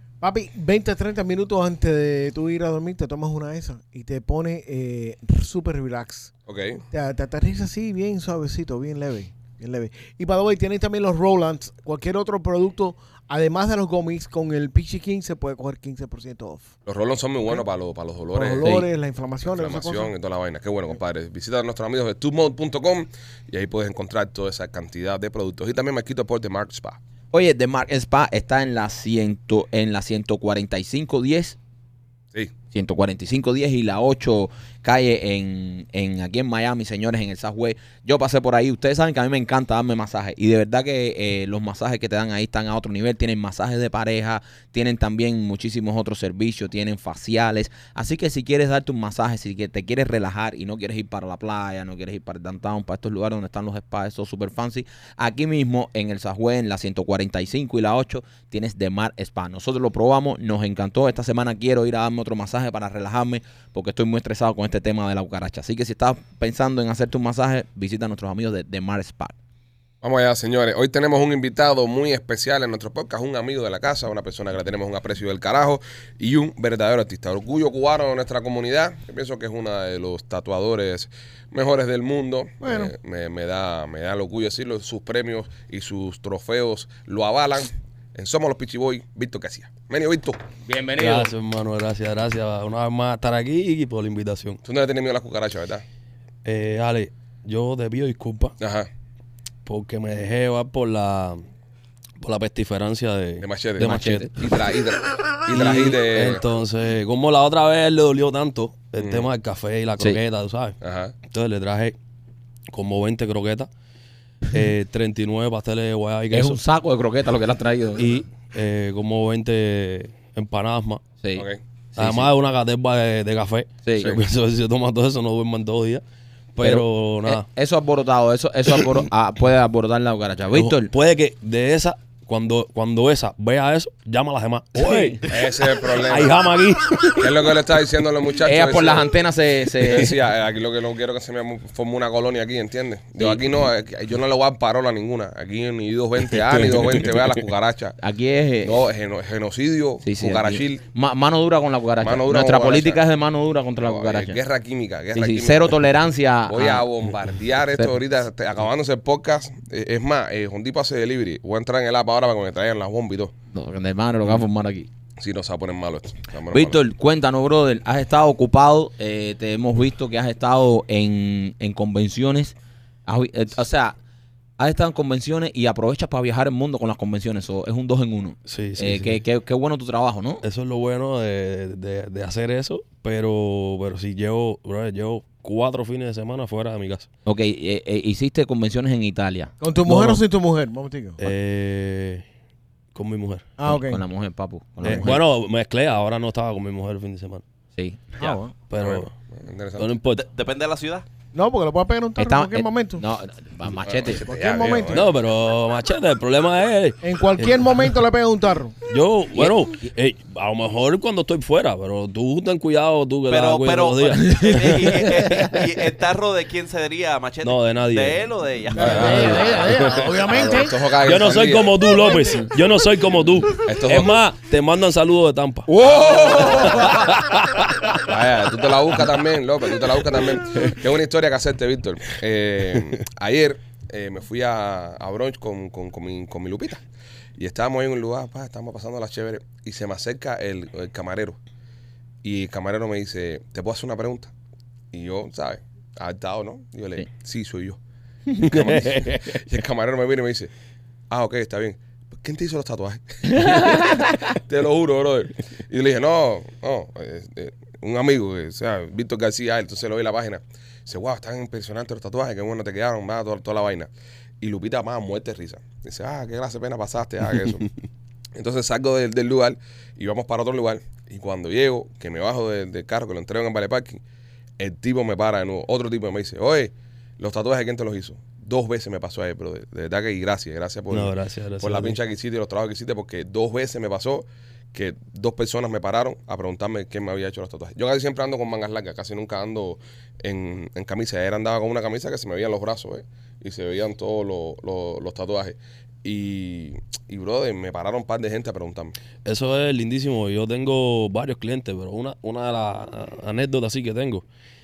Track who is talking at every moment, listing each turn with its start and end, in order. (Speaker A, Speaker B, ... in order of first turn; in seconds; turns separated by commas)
Speaker A: 0.2-6.3, Speaker B: 6.5-6.8, Speaker A: 6.9-16.7, Speaker B: 16.9-18.6, Speaker A: 18.3-20.1, Speaker B: 19.4-27.0, Speaker C: 27.3-31.6, Speaker C: 32.7-69.3, Speaker B: 70.0-90.4, Speaker A: 82.6-82.9, Speaker C: 90.7-91.3, Speaker D: 91.0-94.6, Speaker B: 94.6-95.8, Speaker D: 96.4-98.5, Speaker B: 98.6-98.9, Speaker D: 99.7-101.4, Speaker D: 102.2-104.3, Speaker B: 103.4-106.4, Speaker C: 103.8-104.3, Speaker D: 105.5-110.8, Speaker B: 109.0-109.2, Speaker B: 110.8-111.1, Speaker D: 111.3-112.0, Speaker D: 112.7-113.7, Speaker D: 114.5-116.6, Speaker C: 116.3-118.1, Speaker D: 118.0-121.0, Speaker C: 121.2-122.3, Speaker D: 122.0-126.0, Speaker C: 123.8-124.2, Speaker D: 126.5-127.4, Speaker C: 126.6-130.9, Speaker D: 130.5-135.2, Speaker C: 134.8-135.2, Speaker B: 135.2-136.3, Speaker D: 135.9-137.4, Speaker B: 137.2-139.1, Speaker C: 138.4-140.1, Speaker B: 139.8-148.0, Speaker D: 146.6-146.9, Speaker C: 148.0-148.8, Speaker B: 148.6-150.8, Speaker C: 150.0-154.4, Speaker B: 152.0-153.0, Speaker B: 153.8-155.8, Speaker C: 155.1-156.9, Speaker B: 156.5-163.3, Speaker C: 163.5-164.9, Speaker B: 165.2-166.8, Speaker C: 166.5-172.5, Speaker C: 173.1-173.9, Speaker C: 174.6-180.4, Speaker D: 178.4-179.2, Speaker D: 180.4-187.1, Speaker C: 187.2-189.5, Speaker A: 189.6-191.3, Speaker D: 189.8-190.2, Speaker D: 191.2-192.2, Speaker D: 192.9-193.6, Speaker A: 193.6-194.0, Speaker C: 193.7-195.2, Speaker D: 194.8-197.4, Speaker C: 197.8-198.5, Speaker D: 198.7-199.1, Speaker B: 198.8-199.9, Speaker D: 199.8-200.2, Speaker E: 200.1-201.0, Speaker A: 201.3-203.0, Speaker C: 202.2-204.2, Speaker B: 203.8-205.1, Speaker A: 204.2-205.1, Speaker D: 204.9-207.8, Speaker A: 207.0-208.8, Speaker D: 208.9-215.7, Speaker C: 209.3-209.7, Speaker E: 213.3-219.6, Speaker C: 214.2-214.6, Speaker D: 217.4-218.2, Speaker A: 218.8-220.8, Speaker B: 218.8-221.9, Speaker D: 218.8-220.2, Speaker D: 221.0-225.7, Speaker A: 221.9-222.5, Speaker B: 223.6-224.2, Speaker B: 225.7-227.1, Speaker D: 226.7-228.0, Speaker B: 228.0-236.8, Speaker B: 237.4-241.4, Speaker B: 242.2-244.3, Speaker B: 244.9-247.8, Speaker B: 248.4-250.5, Speaker D: 248.4-249.4, Speaker B: 251.1-263.9, Speaker C: 253.4-254.1, Speaker B: 264.4-267.7, Speaker B: 268.4-274.0, Speaker B: 274.6-298.9, Speaker D: 280.9-282.0, Speaker D: 299.2-304.2